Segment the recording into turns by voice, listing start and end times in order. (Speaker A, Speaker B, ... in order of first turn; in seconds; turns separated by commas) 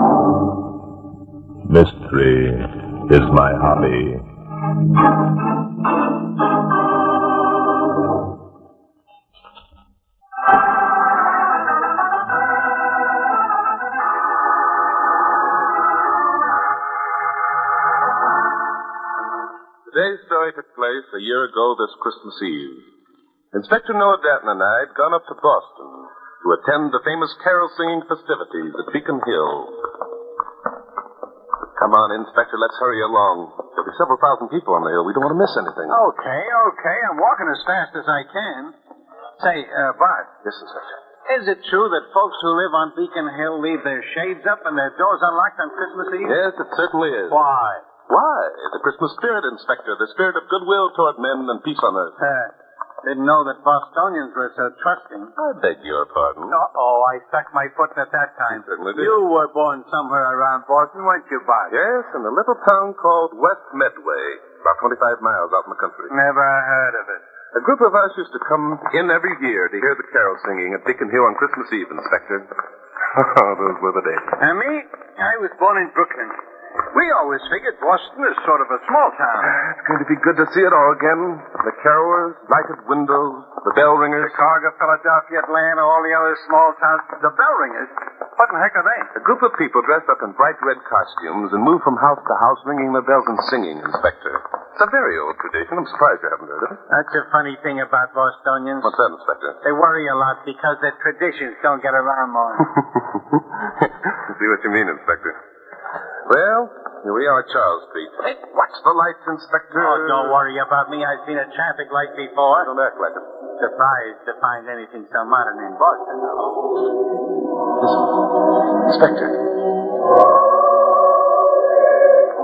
Speaker A: 1.7-4.2, Speaker A: 19.9-22.9, Speaker A: 23.5-29.8, Speaker A: 31.8-36.0, Speaker B: 35.9-38.7, Speaker B: 39.4-40.3, Speaker A: 40.4-40.9, Speaker B: 41.3-46.4, Speaker A: 46.2-47.4, Speaker B: 47.3-47.8, Speaker A: 48.1-52.1, Speaker B: 52.2-55.3, Speaker A: 55.4-56.6, Speaker B: 56.5-61.8, Speaker A: 58.5-59.2, Speaker A: 61.7-66.1, Speaker B: 66.1-67.2, Speaker A: 67.5-72.5, Speaker A: 73.1-74.3, Speaker B: 74.4-76.4, Speaker B: 76.9-79.6, Speaker A: 79.4-84.4, Speaker B: 84.2-89.1, Speaker A: 89.1-96.8, Speaker B: 96.9-98.9, Speaker A: 98.8-99.6, Speaker B: 99.6-102.7, Speaker A: 103.4-105.3, Speaker A: 106.2-110.4, Speaker B: 109.7-112.7, Speaker A: 112.5-113.2, Speaker B: 113.6-116.5, Speaker A: 117.8-118.2, Speaker A: 118.8-119.4